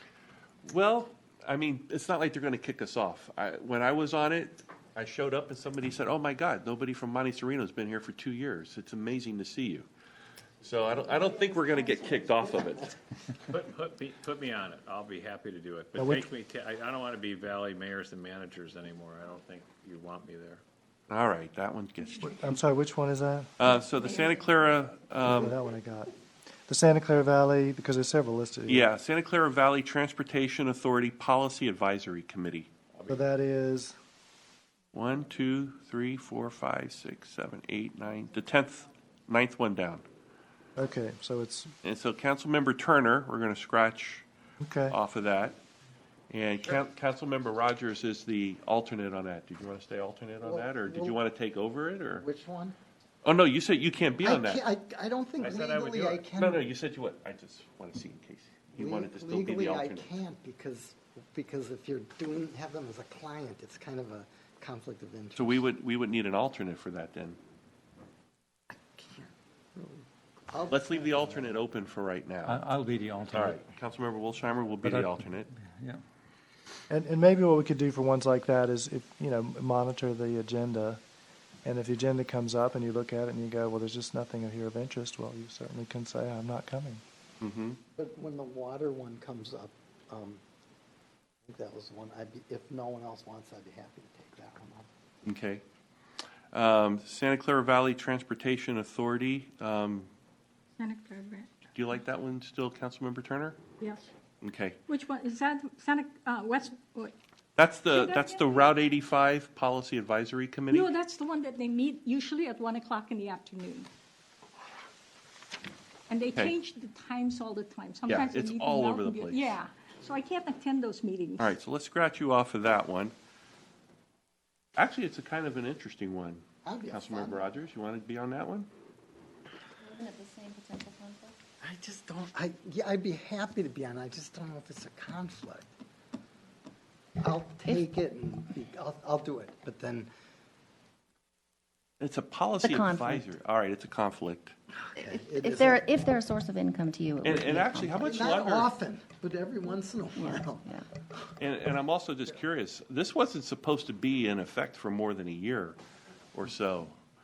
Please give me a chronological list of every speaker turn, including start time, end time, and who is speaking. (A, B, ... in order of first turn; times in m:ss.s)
0:00.6-0:09.9 A
0:10.6-0:13.0 A
0:13.5-0:20.6 B
0:16.0-0:16.3 C
0:21.1-0:22.4 A
0:22.2-0:23.5 C
0:23.6-0:25.5 A
0:25.2-0:26.1 C
0:26.7-0:28.9 C
0:28.7-0:32.7 A
0:33.1-0:34.0 C
0:34.9-0:40.1 A
0:40.8-0:41.7 C
0:41.8-0:44.3 A
0:44.6-0:45.0 C
0:44.9-0:45.6 A
0:46.3-0:52.2 A
0:50.4-0:51.2 D
0:52.2-0:52.8 D
0:53.2-0:54.6 A
0:54.2-0:56.6 D
0:55.4-1:00.1 A
0:58.8-1:05.7 D
1:05.4-1:07.4 A
1:08.7-1:11.6 D
1:10.7-1:12.6 A
1:12.5-1:13.6 E
1:13.3-1:15.5 A
1:14.8-1:16.0 E
1:16.9-1:21.0 C
1:21.6-1:27.0 C
1:27.4-1:27.8 A
1:28.0-1:30.4 D
1:31.5-1:34.9 D
1:35.2-1:35.6 A
1:36.5-1:40.1 A
1:40.8-1:41.5 F
1:41.8-1:43.6 A
1:43.8-1:44.1 F
1:44.4-1:44.8 A
1:44.9-1:47.1 F
1:47.6-1:50.9 A
1:47.9-1:48.7 F
1:50.7-1:53.9 F
1:56.1-2:01.5 F
1:58.1-1:59.6 A
2:01.4-2:03.1 A
2:04.8-2:08.7 A
2:06.6-2:07.5 D
2:09.8-2:11.4 G
2:11.6-2:15.7 D
2:17.2-2:20.1 D
2:22.0-2:24.6 A
2:22.6-2:23.3 G
2:25.0-2:26.0 D
2:25.0-2:28.1 G
2:27.2-2:28.7 A
2:28.0-2:30.8 D
2:30.2-2:30.8 G
2:31.4-2:35.8 A
2:36.3-2:37.0 A